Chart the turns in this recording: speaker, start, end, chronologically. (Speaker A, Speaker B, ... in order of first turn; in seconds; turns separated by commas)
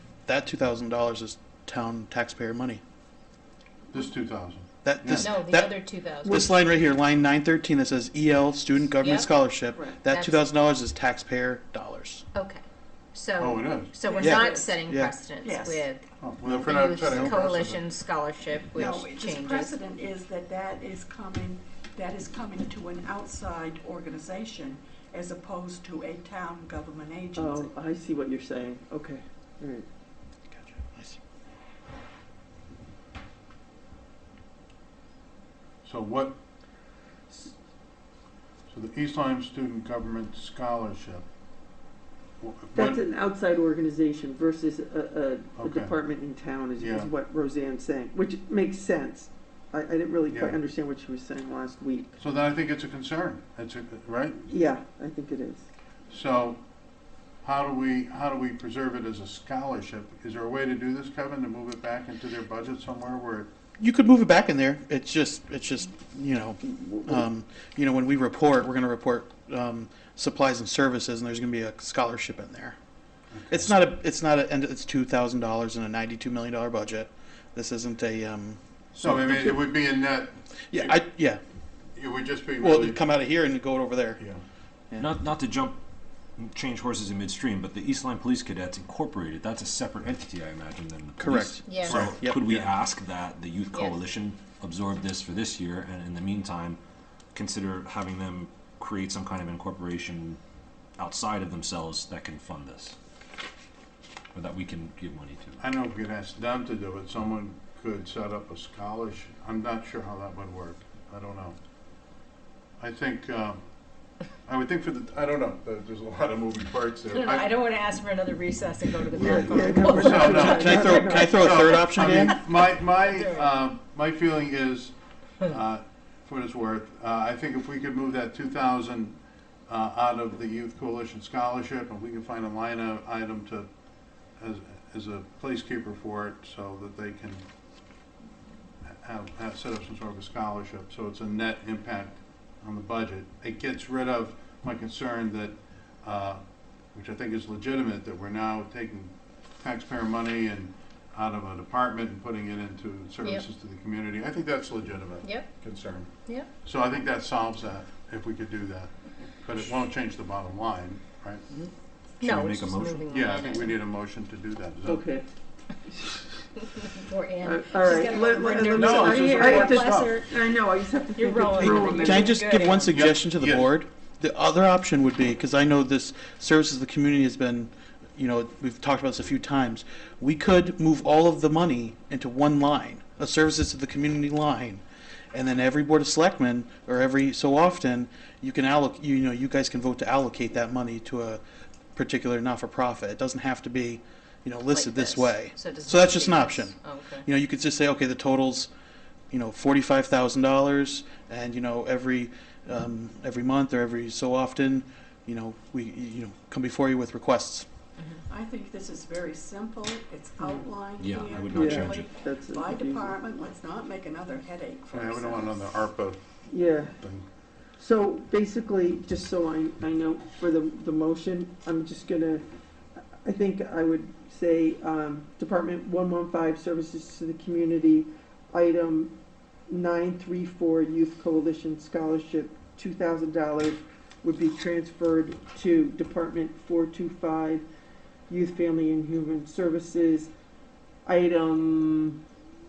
Speaker A: 0.3-2.8, Speaker B: 3.9-5.4, Speaker A: 4.8-12.2, Speaker C: 5.2-6.4, Speaker C: 9.0-9.3, Speaker D: 9.7-10.0, Speaker C: 12.3-12.6, Speaker C: 13.1-16.0, Speaker B: 13.4-13.9, Speaker D: 14.0-14.7, Speaker A: 14.2-15.2, Speaker D: 15.4-15.9, Speaker B: 16.2-17.8, Speaker A: 16.4-17.4, Speaker C: 16.7-19.7, Speaker D: 18.7-27.7, Speaker E: 27.4-29.9, Speaker A: 30.5-31.2, Speaker B: 35.8-36.4, Speaker B: 38.7-41.2, Speaker B: 42.4-43.0, Speaker E: 42.8-52.2, Speaker B: 45.6-46.0, Speaker B: 46.8-47.1, Speaker B: 50.3-50.6, Speaker B: 52.2-54.5, Speaker E: 54.5-55.7, Speaker B: 56.1-56.6, Speaker B: 57.4-63.5, Speaker A: 63.8-72.8, Speaker B: 73.3-73.8, Speaker A: 73.5-79.7, Speaker B: 79.0-81.0, Speaker A: 80.7-81.4, Speaker B: 82.0-83.0, Speaker A: 82.6-84.2, Speaker A: 84.9-85.2, Speaker F: 85.0-85.8, Speaker F: 86.4-96.8, Speaker A: 91.2-92.5, Speaker C: 91.7-92.0, Speaker B: 91.9-92.7, Speaker C: 93.7-94.0, Speaker F: 97.3-100.4, Speaker F: 101.0-103.0, Speaker F: 104.3-105.6, Speaker B: 105.6-111.6, Speaker B: 112.8-113.6, Speaker B: 114.4-117.6, Speaker F: 117.1-121.1, Speaker C: 117.2-119.9, Speaker B: 119.1-133.7, Speaker E: 119.4-121.7, Speaker A: 119.9-122.4, Speaker B: 134.4-137.4, Speaker B: 138.9-146.4, Speaker B: 146.9-156.1, Speaker B: 156.6-158.9, Speaker B: 159.4-161.4, Speaker F: 162.2-163.3, Speaker C: 162.2-163.7, Speaker B: 163.1-165.1, Speaker E: 164.9-165.3, Speaker E: 165.9-166.3, Speaker C: 167.1-170.1, Speaker E: 167.4-172.3, Speaker F: 167.8-169.7, Speaker B: 168.7-170.2, Speaker C: 171.2-172.8, Speaker F: 171.2-172.7, Speaker A: 171.6-191.4, Speaker B: 172.8-173.8, Speaker A: 191.9-198.7, Speaker F: 194.7-197.2, Speaker C: 194.9-197.1, Speaker A: 199.3-207.7, Speaker D: 208.3-215.6, Speaker E: 210.4-210.7, Speaker F: 211.0-212.0, Speaker E: 211.5-213.2, Speaker B: 214.9-216.2, Speaker E: 216.5-216.9, Speaker B: 217.0-217.2, Speaker E: 217.8-222.4, Speaker E: 223.2-229.1, Speaker E: 229.7-237.7, Speaker E: 238.3-240.3, Speaker E: 241.1-242.2